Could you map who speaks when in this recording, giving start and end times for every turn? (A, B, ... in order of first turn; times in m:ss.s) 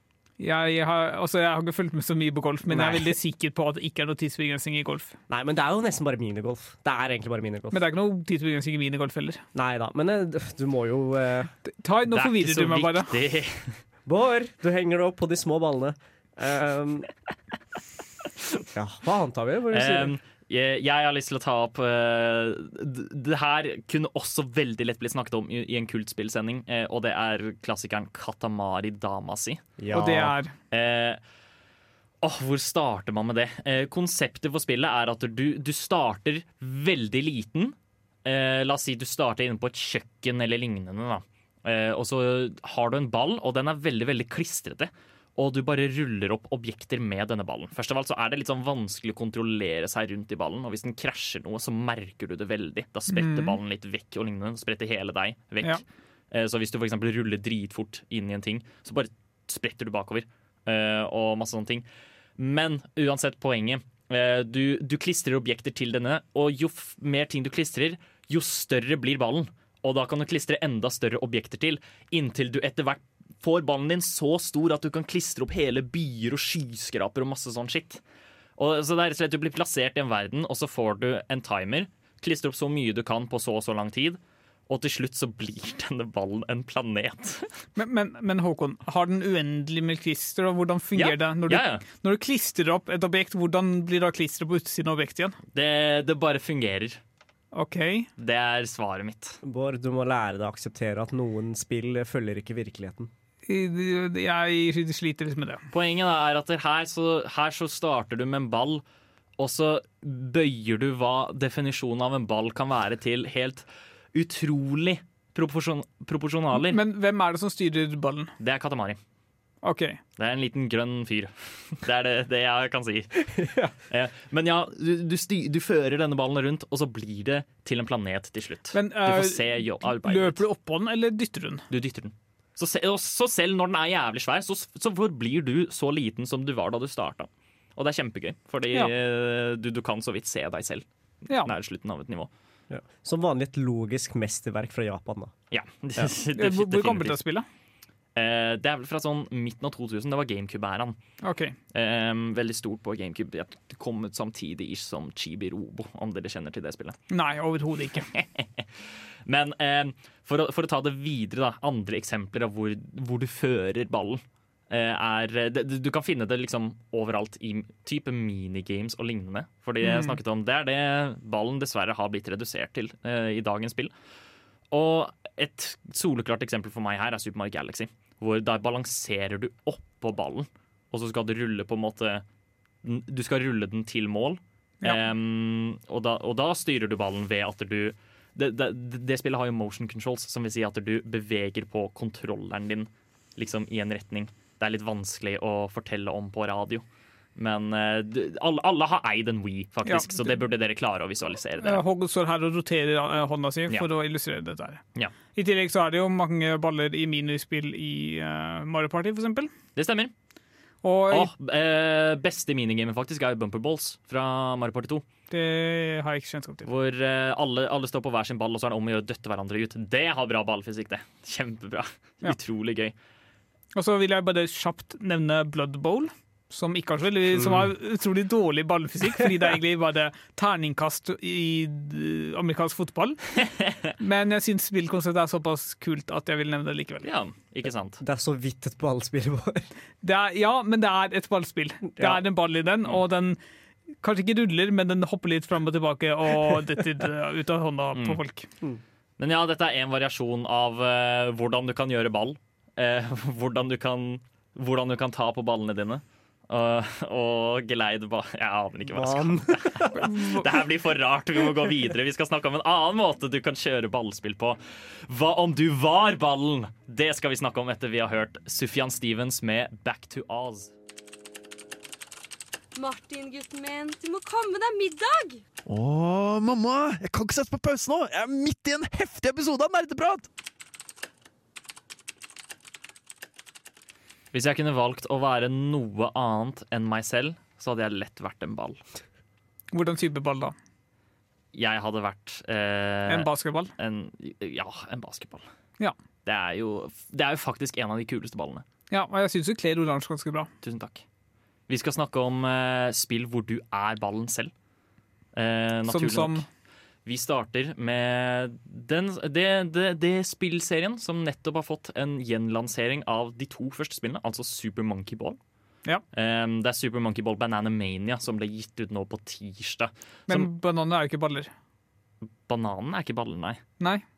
0:00.4-0:05.2 A
0:02.7-0:03.2 B
0:05.3-0:07.8 B
0:07.7-0:09.4 A
0:09.5-0:11.5 B
0:11.7-0:13.2 A
0:12.1-0:13.8 C
0:14.1-0:17.1 B
0:18.7-0:20.1 B
0:19.7-0:29.6 C
0:29.8-0:30.4 B
0:29.9-0:30.6 A
0:30.7-0:31.2 C
0:32.2-1:01.9 C
0:53.1-0:53.6 A
1:02.4-1:18.0 C
1:18.6-1:27.5 C
1:27.8-1:35.4 A
1:31.0-1:31.8 C
1:35.5-1:37.0 C
1:37.5-1:38.1 A
1:38.2-1:39.4 C
1:39.4-1:43.1 B
1:43.5-1:45.6 A
1:45.7-1:48.8 C
1:49.4-1:56.8 C
1:56.5-1:58.3 A
1:58.4-1:59.0 C
1:59.6-2:00.0 A
2:00.2-2:03.3 C
2:03.4-2:03.7 B
2:03.9-2:10.4 C
2:08.7-2:11.7 A
2:11.7-2:22.3 C
2:22.7-2:25.3 B
2:25.5-2:27.2 C
2:26.4-2:27.5 A
2:28.2-2:31.0 C
2:31.2-2:31.6 A
2:31.7-2:37.0 C
2:37.1-2:38.1 A
2:38.1-2:38.7 C
2:39.3-2:53.9 C
2:49.8-2:50.2 A
2:54.7-3:02.2 C
3:02.8-3:16.8 C
3:17.4-3:21.8 C
3:19.8-3:20.4 A
3:21.6-3:24.8 A
3:25.4-3:29.5 A
3:29.8-3:30.1 C
3:30.8-3:31.3 A
3:31.1-3:35.0 C
3:35.3-3:36.7 A
3:36.7-3:42.9 C
3:43.7-3:53.2 A
3:54.0-3:57.0 A
3:57.0-3:58.0 C
3:58.0-3:59.7 B
4:00.0-4:03.4 A
4:02.0-4:02.2 B
4:04.0-4:08.5 A
4:09.2-4:30.7 C
4:18.9-4:20.0 B
4:20.0-4:20.4 A
4:32.8-4:35.4 D
4:35.7-4:40.2 E
4:44.3-4:48.8 C
4:49.7-4:50.6 A
4:51.5-4:55.5 C
4:53.1-4:53.7 A
4:56.2-4:58.6 C
4:58.9-5:00.5 A
5:00.6-5:01.0 C
5:01.7-5:04.5 C
5:05.4-5:06.5 C
5:05.9-5:06.5 A
5:07.1-5:15.4 C
5:16.1-5:20.5 C
5:20.3-5:21.5 A
5:22.5-5:23.6 C